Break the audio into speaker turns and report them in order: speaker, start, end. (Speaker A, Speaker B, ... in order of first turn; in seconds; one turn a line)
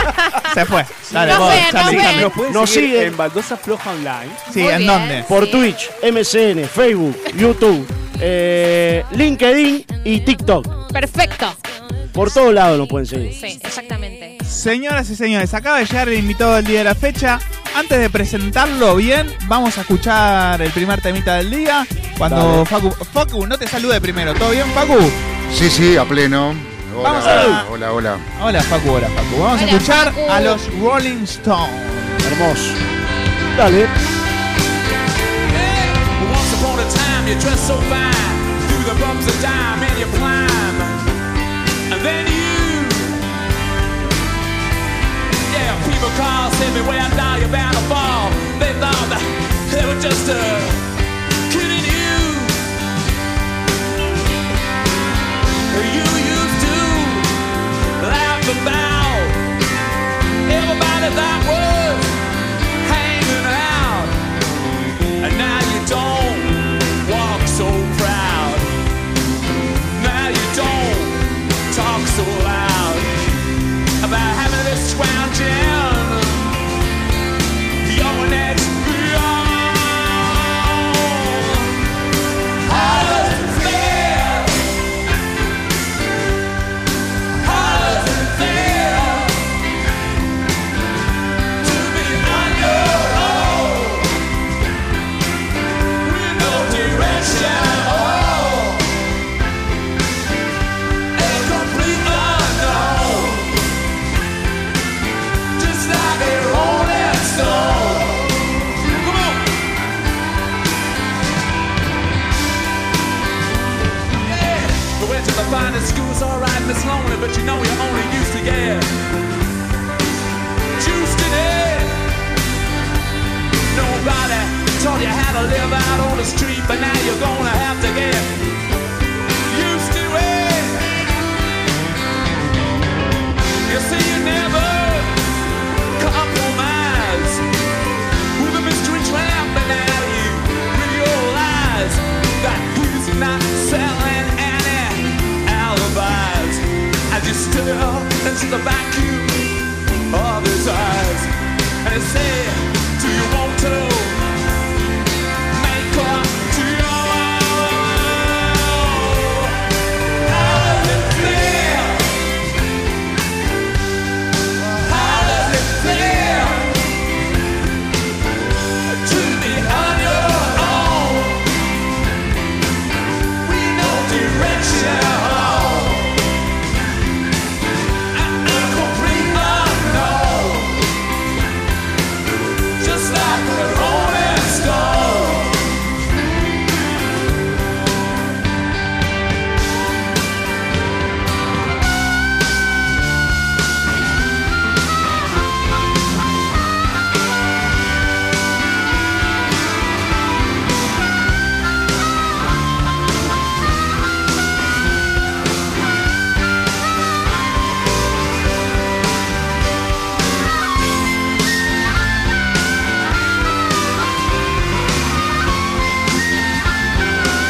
Speaker A: 0.5-2.3
Speaker B: 1.2-4.4
Speaker C: 1.2-2.3
Speaker D: 2.4-3.1
Speaker A: 4.5-5.3
Speaker C: 4.5-5.7
Speaker D: 5.3-10.8
Speaker C: 10.9-11.6
Speaker D: 12.1-13.4
Speaker C: 13.3-14.4
Speaker A: 14.5-25.2
Speaker D: 22.2-22.7
Speaker E: 25.5-28.2
Speaker A: 27.0-27.7
Speaker D: 27.2-27.6
Speaker A: 28.4-32.2
Speaker C: 29.5-30.6
Speaker D: 32.2-32.8
Speaker D: 33.5-33.9
Speaker F: 35.5-41.0
Speaker F: 41.9-43.2
Speaker F: 45.5-50.8
Speaker F: 51.5-52.6
Speaker F: 55.7-57.4
Speaker F: 58.0-59.4
Speaker F: 60.5-62.2
Speaker F: 62.8-64.2
Speaker F: 65.2-68.7
Speaker F: 70.0-73.2
Speaker F: 74.0-76.5
Speaker F: 77.8-81.7
Speaker F: 82.7-84.6
Speaker F: 87.4-89.4
Speaker F: 91.6-94.1
Speaker F: 96.0-98.8
Speaker F: 101.2-103.5
Speaker F: 105.6-108.2
Speaker F: 108.9-109.4
Speaker F: 114.2-119.0
Speaker F: 120.8-122.0
Speaker F: 123.7-128.3
Speaker F: 129.5-130.9
Speaker F: 133.7-135.2
Speaker F: 136.0-137.4
Speaker F: 138.4-149.5
Speaker F: 150.1-151.3
Speaker F: 151.8-154.2
Speaker F: 155.5-159.5
Speaker F: 160.3-162.1
Speaker F: 164.8-166.8
Speaker F: 168.9-171.4
Speaker F: 173.4-176.2
Speaker F: 178.1-180.8
Speaker F: 182.8-185.6